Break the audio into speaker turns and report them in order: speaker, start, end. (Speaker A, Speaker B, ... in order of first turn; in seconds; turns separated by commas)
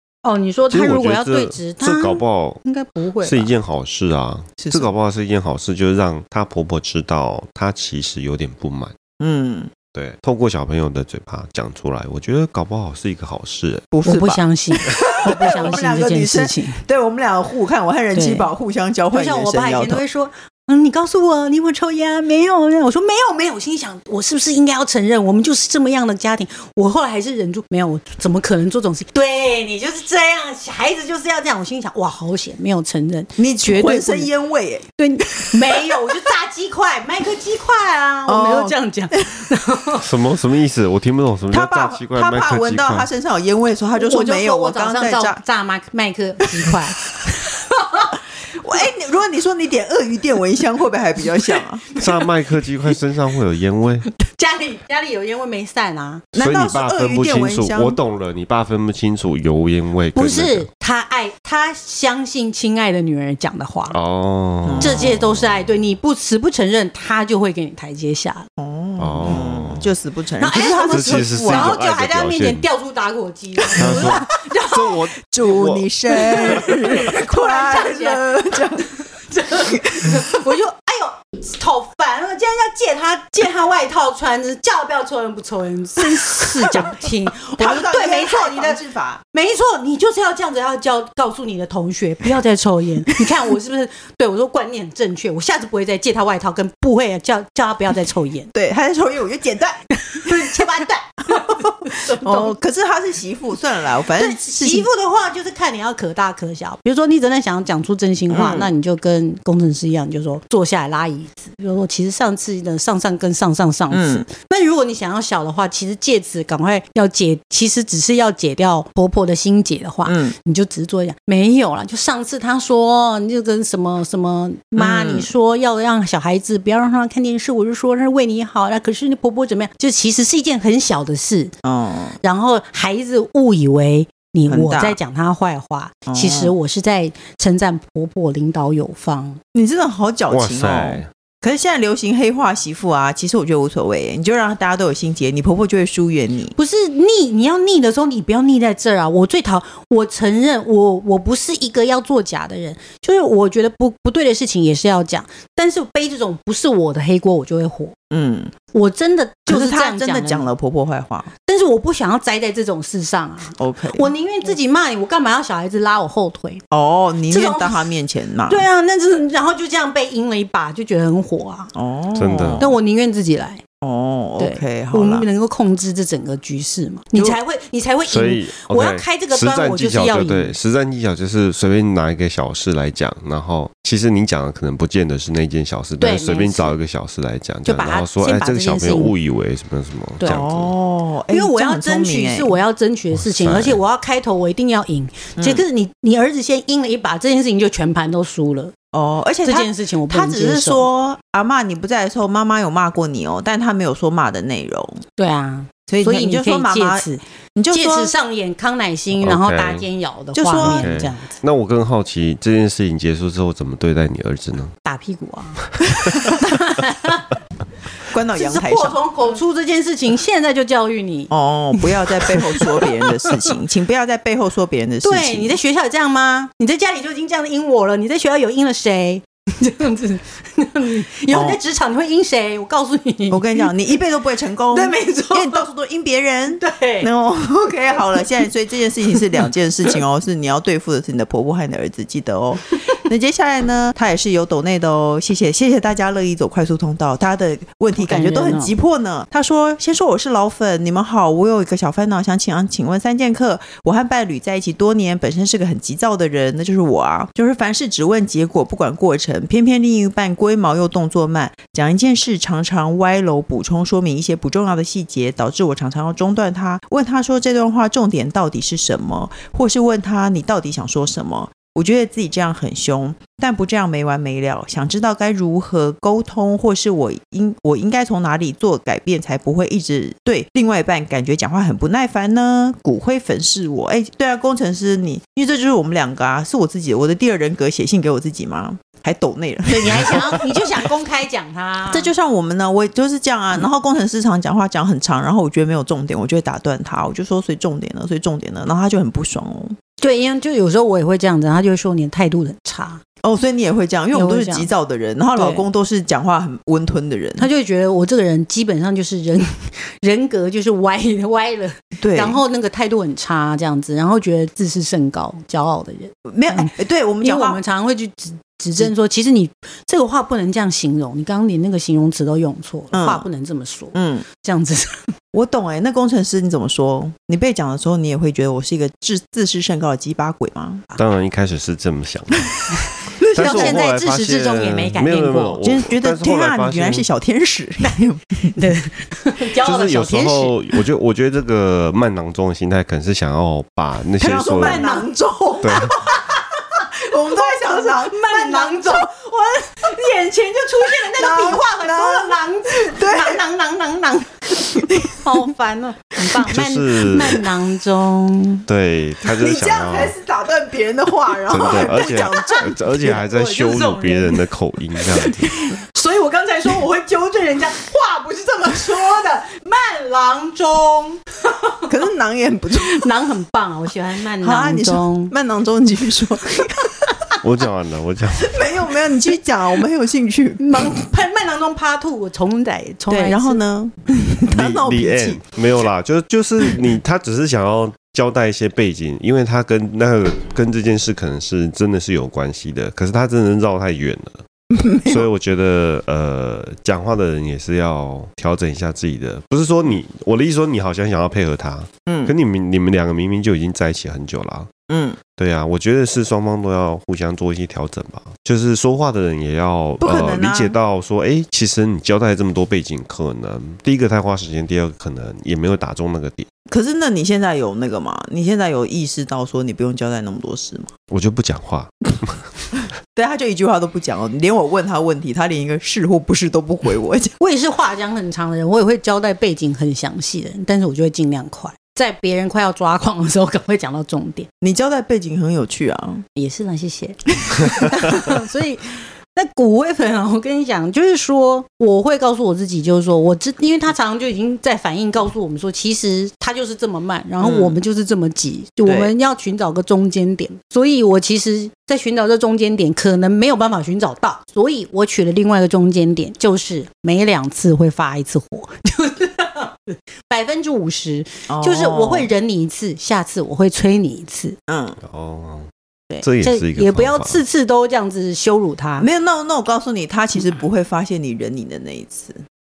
Speaker A: 0.2-3.5, Speaker B: 0.7-2.6, Speaker B: 3.2-8.9, Speaker C: 4.6-4.9, Speaker C: 9.2-9.7, Speaker B: 9.9-13.9, Speaker C: 13.9-20.0, Speaker A: 14.1-16.8, Speaker A: 18.1-18.5, Speaker A: 19.1-34.3, Speaker C: 33.4-34.8, Speaker A: 35.0-40.1, Speaker C: 35.7-36.2, Speaker C: 38.3-39.4, Speaker B: 40.0-43.1, Speaker C: 41.5-45.4, Speaker A: 44.0-48.1, Speaker C: 48.5-51.8, Speaker A: 51.6-52.3, Speaker B: 52.0-54.1, Speaker A: 54.2-56.2, Speaker C: 56.3-58.0, Speaker B: 56.4-60.7, Speaker A: 60.1-64.0, Speaker B: 63.9-65.2, Speaker C: 64.6-65.2, Speaker A: 64.8-68.5, Speaker C: 68.6-71.8, Speaker B: 69.0-69.9, Speaker A: 70.4-75.1, Speaker B: 70.5-72.7, Speaker C: 73.7-74.2, Speaker B: 73.8-76.8, Speaker C: 75.3-79.0, Speaker A: 76.2-88.8, Speaker C: 87.6-89.2, Speaker A: 89.3-98.5, Speaker C: 98.5-100.7, Speaker A: 100.0-102.5, Speaker C: 101.3-104.9, Speaker A: 104.0-131.5, Speaker C: 108.3-108.7, Speaker C: 113.9-114.3, Speaker C: 120.1-120.3, Speaker C: 124.8-125.3, Speaker C: 131.6-132.2, Speaker A: 132.2-139.4, Speaker C: 134.5-135.0, Speaker C: 136.1-136.5, Speaker C: 139.6-146.6, Speaker B: 140.3-141.1, Speaker A: 146.6-157.9, Speaker C: 158.1-158.5, Speaker A: 158.7-160.5, Speaker C: 159.5-161.3, Speaker A: 161.5-166.6, Speaker C: 163.6-164.1, Speaker C: 166.7-168.7, Speaker A: 167.3-167.9, Speaker A: 168.5-171.7, Speaker C: 171.8-172.7, Speaker B: 172.2-172.7, Speaker A: 172.6-173.6, Speaker C: 173.8-175.3, Speaker A: 174.4-180.6, Speaker B: 178.1-190.7, Speaker A: 186.0-186.8, Speaker A: 187.7-189.2, Speaker C: 190.3-192.6, Speaker A: 191.3-198.7, Speaker B: 193.1-193.8, Speaker C: 195.4-195.6, Speaker C: 198.9-205.0, Speaker A: 199.4-200.9, Speaker A: 205.2-211.4, Speaker C: 205.9-208.1, Speaker B: 209.2-209.9, Speaker C: 210.3-210.9, Speaker B: 210.6-214.7, Speaker A: 214.8-217.3, Speaker B: 216.1-216.4, Speaker C: 218.1-219.0, Speaker A: 218.4-223.3, Speaker C: 221.3-225.6, Speaker A: 225.0-233.7, Speaker C: 231.3-231.6, Speaker C: 233.3-290.6, Speaker A: 234.7-235.7, Speaker A: 236.6-237.1, Speaker A: 238.0-238.3, Speaker A: 239.2-239.5, Speaker A: 248.0-248.7, Speaker A: 289.7-292.1, Speaker C: 291.9-299.8, Speaker A: 300.0-303.0, Speaker C: 303.2-307.5, Speaker A: 304.1-304.7, Speaker A: 305.4-305.7, Speaker A: 307.4-325.1, Speaker C: 312.0-312.4, Speaker C: 316.2-317.6, Speaker C: 322.9-323.3, Speaker C: 323.9-324.3, Speaker C: 325.3-330.9, Speaker B: 331.0-332.6, Speaker C: 333.2-333.9, Speaker A: 333.3-335.6, Speaker B: 333.3-337.1, Speaker C: 335.6-338.6, Speaker A: 337.8-340.8, Speaker B: 339.6-344.8, Speaker C: 344.2-345.9, Speaker A: 344.3-345.1, Speaker A: 345.6-346.4, Speaker B: 345.6-345.9, Speaker C: 347.1-349.1, Speaker A: 347.3-358.7, Speaker C: 351.1-353.4, Speaker C: 354.9-355.2, Speaker B: 356.5-357.4, Speaker B: 358.7-360.1, Speaker C: 359.4-363.2, Speaker B: 361.5-365.5, Speaker A: 361.6-364.5, Speaker A: 365.0-371.9, Speaker C: 371.9-373.0, Speaker A: 372.8-375.3, Speaker C: 374.4-376.9, Speaker B: 377.4-378.5, Speaker C: 378.4-380.6, Speaker A: 380.6-383.6, Speaker C: 383.1-385.4, Speaker B: 384.5-394.4, Speaker C: 394.7-395.3, Speaker B: 395.1-404.7, Speaker C: 402.1-402.4, Speaker C: 404.9-405.2, Speaker B: 405.4-416.5, Speaker C: 410.0-410.8, Speaker C: 416.7-420.9, Speaker B: 421.1-422.4, Speaker C: 423.1-427.4, Speaker A: 427.4-434.5, Speaker C: 434.6-436.2, Speaker A: 436.4-464.6, Speaker C: 447.4-447.8, Speaker C: 448.8-449.1, Speaker C: 461.5-462.3, Speaker C: 464.7-465.0, Speaker B: 465.0-465.7, Speaker A: 466.1-469.1, Speaker B: 466.2-467.4, Speaker C: 469.0-472.4